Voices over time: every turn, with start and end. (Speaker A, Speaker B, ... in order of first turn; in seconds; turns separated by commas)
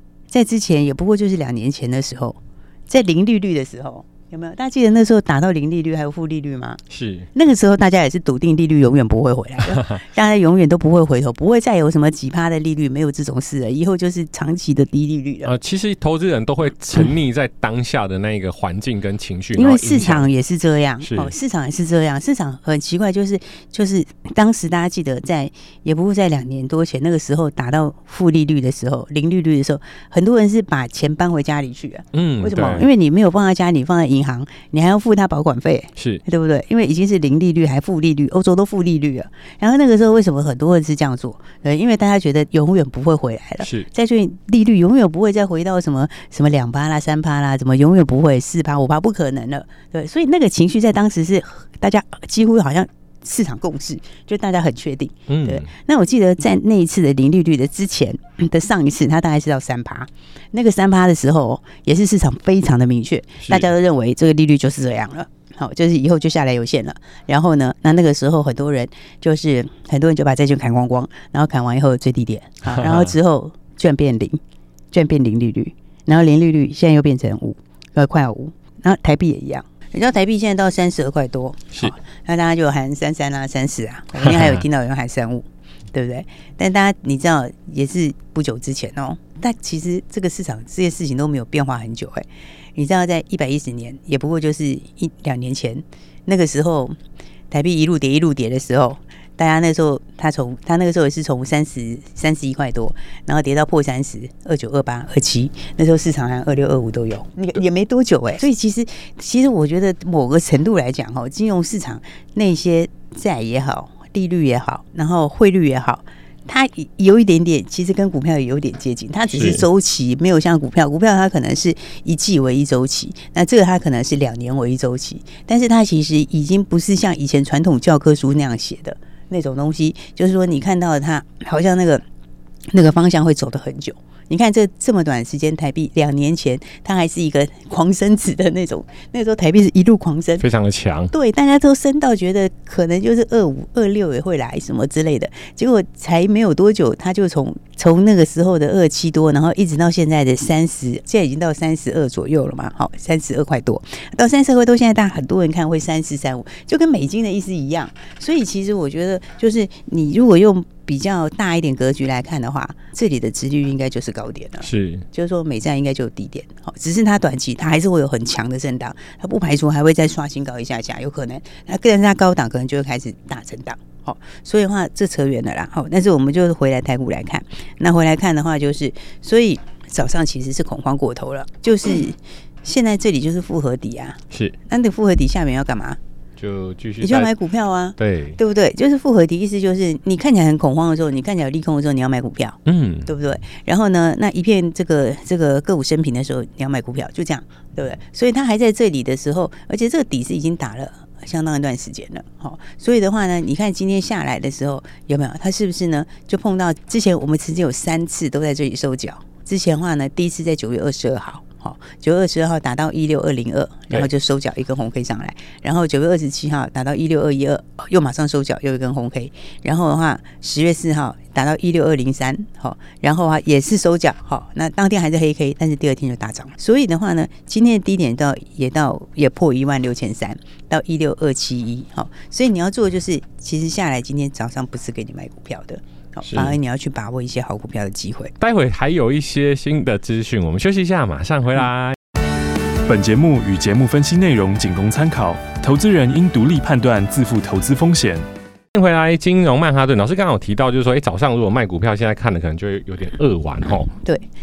Speaker A: 0.3-6.8, Speaker B: 6.9-7.3, Speaker A: 7.3-15.5, Speaker B: 15.4-20.3, Speaker A: 19.5-74.4, Speaker B: 21.0-21.3, Speaker B: 32.1-32.9, Speaker B: 36.0-36.2, Speaker B: 43.6-43.9, Speaker B: 55.3-55.7, Speaker B: 63.4-63.7, Speaker B: 72.7-73.1, Speaker A: 74.9-97.0, Speaker B: 84.2-84.6, Speaker A: 97.5-132.0, Speaker B: 119.3-119.7, Speaker A: 132.7-140.4, Speaker B: 140.4-141.1, Speaker A: 141.1-186.0, Speaker B: 164.6-165.1, Speaker B: 186.4-187.3, Speaker A: 187.0-238.3, Speaker B: 188.0-188.4, Speaker B: 192.7-193.1, Speaker B: 236.2-236.6, Speaker B: 238.4-242.0, Speaker C: 242.9-248.2, Speaker B: 248.7-253.9, Speaker A: 254.0-254.3